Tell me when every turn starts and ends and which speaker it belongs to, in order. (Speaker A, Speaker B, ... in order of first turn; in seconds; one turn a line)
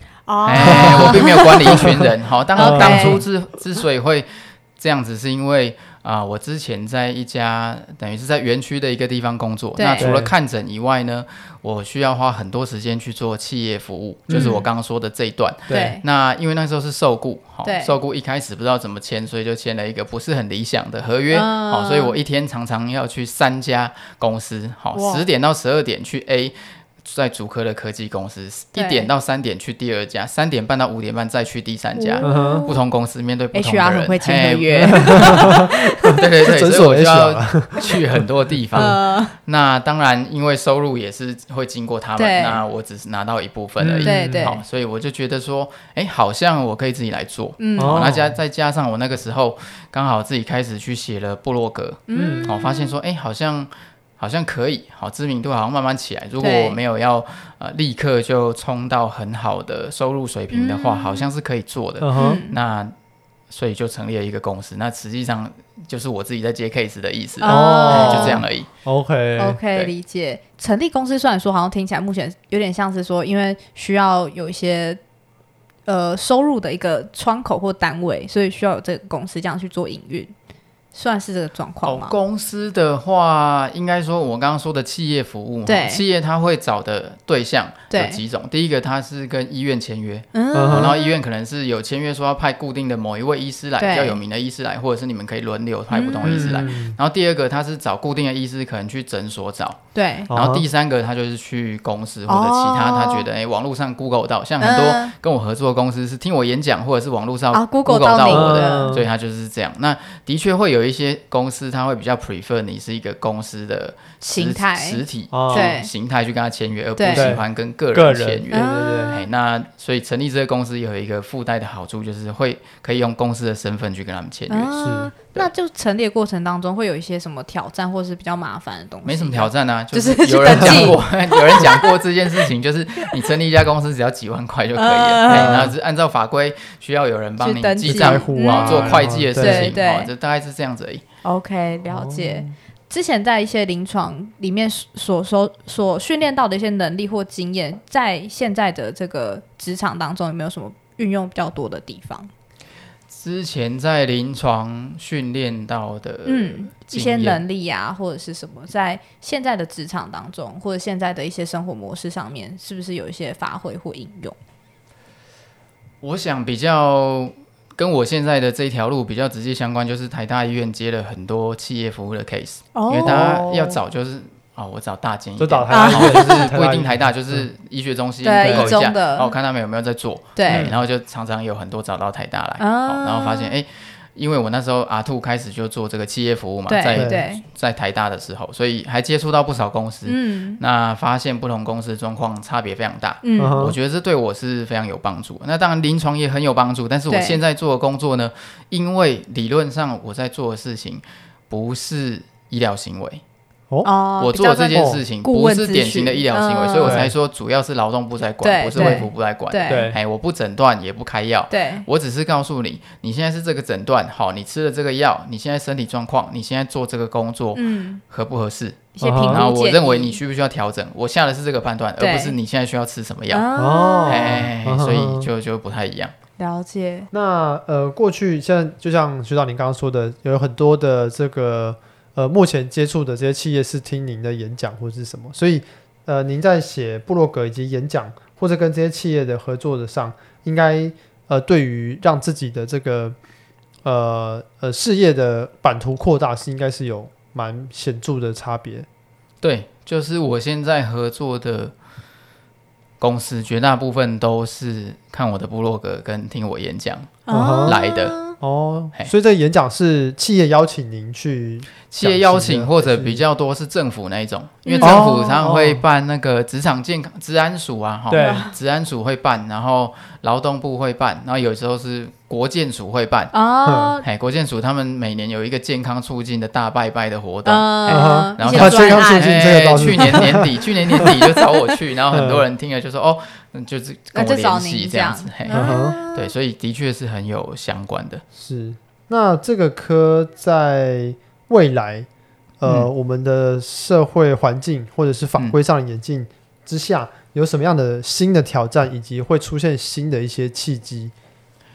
Speaker A: 0.3-2.0
Speaker B: 0.4-62.9
Speaker C: 0.6-3.2
Speaker A: 2.5-3.2
Speaker A: 9.8-10.1
Speaker C: 10.0-10.3
Speaker C: 14.3-14.6
Speaker A: 14.3-14.7
Speaker C: 15.7-15.9
Speaker A: 15.7-16.0
Speaker A: 17.6-17.9
Speaker A: 21.3-22.1
Speaker A: 24.9-25.2
Speaker A: 28.7-29.1
Speaker A: 31.9-32.8
Speaker C: 32.2-32.6
Speaker A: 33.5-36.2
Speaker C: 34.8-38.9
Speaker A: 38.7-39.3
Speaker A: 42.2-42.6
Speaker C: 43.8-44.5
Speaker A: 44.0-44.6
Speaker A: 47.6-48.0
Speaker C: 47.8-48.4
Speaker A: 52.1-52.9
Speaker C: 52.1-52.5
Speaker A: 56.4-56.8
Speaker A: 60.5-61.3
Speaker C: 62.0-62.4
Speaker A: 62.1-62.5
Speaker B: 63.5-68.7
Speaker A: 67.4-68.4
Speaker C: 67.4-69.6
Speaker A: 69.4-75.0
Speaker A: 75.8-80.3
Speaker A: 80.9-82.2
Speaker B: 81.8-99.8
Speaker A: 85.7-86.0
Speaker A: 87.9-88.2
Speaker A: 90.3-91.1
Speaker C: 90.5-90.9
Speaker A: 93.8-94.2
Speaker A: 95.9-96.6
Speaker C: 96.2-97.0
Speaker A: 99.9-100.3
Speaker C: 100.3-100.6
Speaker B: 100.3-124.7
Speaker A: 102.3-103.3
Speaker A: 104.6-105.1
Speaker A: 107.5-109.0
Speaker C: 108.3-109.1
Speaker A: 114.2-115.9
Speaker C: 115.3-115.7
Speaker A: 117.0-117.3
Speaker C: 117.1-119.2
Speaker A: 118.5-119.2
Speaker A: 124.5-131.9
Speaker C: 124.8-125.1
Speaker B: 129.0-141.0
Speaker C: 130.5-131.0
Speaker A: 134.8-135.6
Speaker C: 135.3-135.8
Speaker A: 137.4-140.1
Speaker C: 137.8-139.8
Speaker A: 141.2-152.3
Speaker C: 141.9-142.5
Speaker B: 153.1-157.4
Speaker A: 156.2-164.3
Speaker B: 166.0-203.2
Speaker A: 172.7-173.3
Speaker C: 173.0-173.8
Speaker C: 175.4-177.5
Speaker A: 175.7-176.5
Speaker A: 178.2-179.3
Speaker C: 178.4-178.8
Speaker A: 180.3-180.7
Speaker C: 180.5-180.8
Speaker A: 182.6-183.5
Speaker A: 186.7-187.4
Speaker C: 186.9-187.2
Speaker A: 190.1-190.6
Speaker A: 193.2-193.6
Speaker C: 193.4-193.8
Speaker A: 197.1-197.4
Speaker A: 203.8-207.1
Speaker B: 204.2-223.4
Speaker C: 204.7-205.0
Speaker C: 206.8-207.1
Speaker A: 208.4-209.9
Speaker C: 208.7-209.1
Speaker C: 209.7-210.0
Speaker A: 211.5-211.8
Speaker A: 217.5-218.0
Speaker A: 218.9-220.2
Speaker C: 219.0-219.4
Speaker A: 222.0-222.3
Speaker A: 223.3-224.4
Speaker C: 223.6-225.3
Speaker B: 224.1-226.1
Speaker A: 226.4-227.1
Speaker C: 227.1-243.2
Speaker C: 243.8-248.9
Speaker B: 249.4-251.7
Speaker B: 253.0-258.2
Speaker A: 257.3-258.4
Speaker C: 257.3-257.8
Speaker C: 258.4-263.2
Speaker B: 261.9-273.3
Speaker A: 264.6-265.4
Speaker C: 264.8-265.8
Speaker C: 268.1-268.5
Speaker A: 268.1-268.5
Speaker A: 273.3-274.0
Speaker C: 273.6-273.9
Speaker B: 274.0-288.2
Speaker A: 277.4-280.3
Speaker C: 277.9-281.2
Speaker A: 280.9-281.3
Speaker C: 282.1-282.4
Speaker A: 284.1-286.3
Speaker C: 285.5-286.0
Speaker C: 288.4-292.1
Speaker C: 292.6-301.1